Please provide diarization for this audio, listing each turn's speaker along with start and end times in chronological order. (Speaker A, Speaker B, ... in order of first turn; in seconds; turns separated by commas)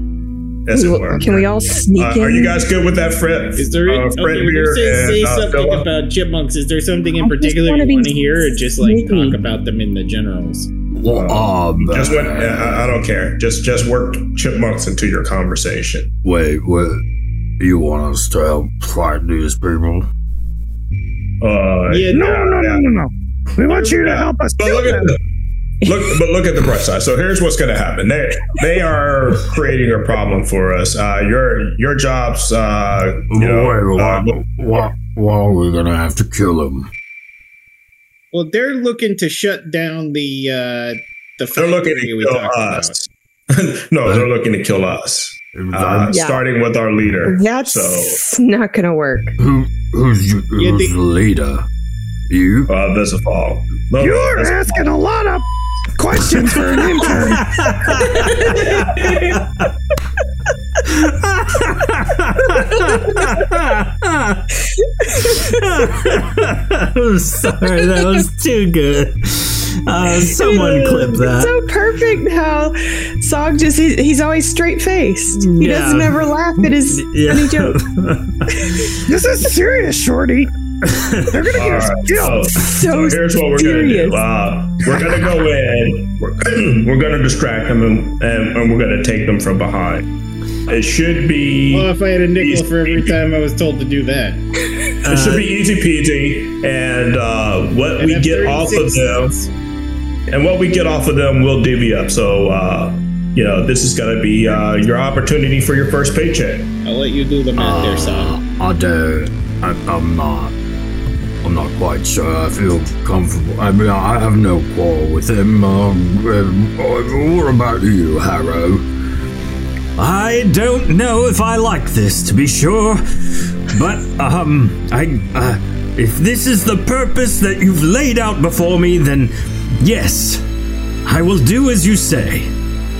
Speaker A: 0.7-5.9, Speaker B: 0.7-2.6, Speaker C: 3.5-10.7, Speaker B: 7.2-9.4, Speaker D: 10.9-12.9, Speaker A: 11.1-16.1, Speaker D: 16.2-17.0, Speaker D: 17.6-20.1, Speaker A: 21.4-22.8, Speaker C: 21.9-22.2, Speaker E: 22.1-25.1, Speaker A: 23.8-25.2, Speaker A: 25.8-34.3, Speaker D: 33.3-36.9, Speaker C: 38.3-43.0, Speaker A: 41.5-48.2, Speaker D: 45.5-46.1, Speaker B: 46.1-46.4, Speaker B: 47.2-49.3, Speaker D: 49.4-51.6, Speaker C: 50.6-50.9, Speaker D: 52.3-52.7, Speaker A: 52.7-54.8, Speaker E: 54.0-57.6, Speaker F: 57.4-59.4, Speaker C: 58.4-59.4, Speaker F: 60.8-64.4, Speaker F: 65.2-71.5, Speaker B: 70.1-77.8, Speaker F: 75.3-78.7, Speaker E: 79.0-80.5, Speaker F: 80.8-81.4, Speaker E: 81.3-82.5, Speaker A: 81.5-90.1, Speaker B: 82.5-84.2, Speaker A: 90.7-93.2, Speaker C: 91.7-94.4, Speaker F: 95.0-95.4, Speaker A: 95.0-99.3, Speaker C: 98.0-99.5, Speaker A: 100.3-106.7, Speaker C: 106.8-108.4, Speaker D: 107.5-110.5, Speaker D: 111.4-118.8, Speaker F: 120.0-123.0, Speaker F: 123.7-130.4, Speaker F: 131.1-132.5